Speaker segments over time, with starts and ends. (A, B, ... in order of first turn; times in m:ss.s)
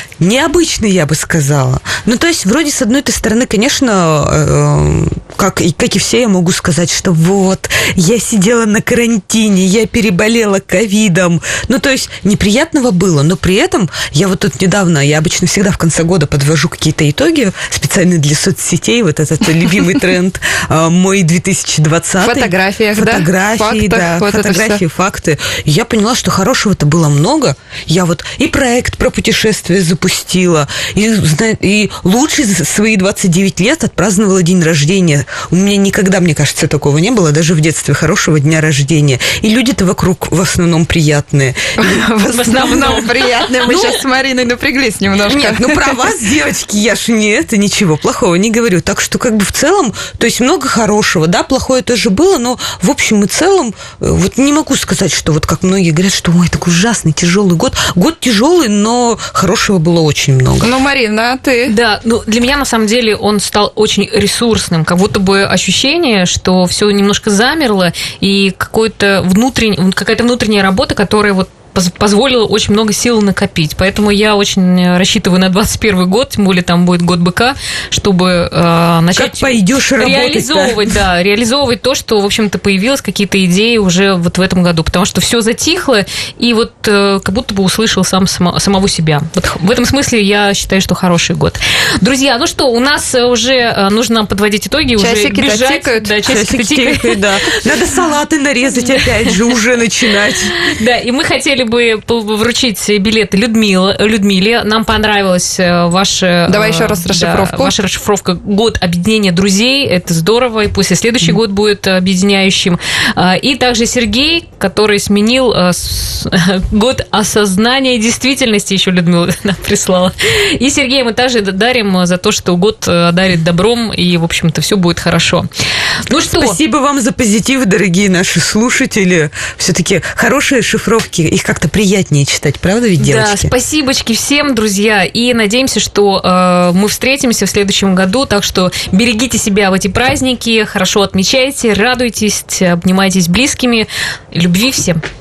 0:00.2-0:42.9 A
0:22.2-0:24.8 B
0:41.8-0:46.1 B
0:42.3-0:44.0 C
0:45.3-1:00.7 A
1:00.6-1:01.7 B
1:01.7-1:37.2 C
1:19.1-1:20.9 A
1:35.0-1:36.3 B
1:36.2-1:40.5 A
1:38.7-1:39.4 C
1:40.6-2:05.5 C
1:46.5-1:47.7 B
2:06.1-2:06.6 C
2:06.3-2:13.5 A
2:13.0-2:25.0 C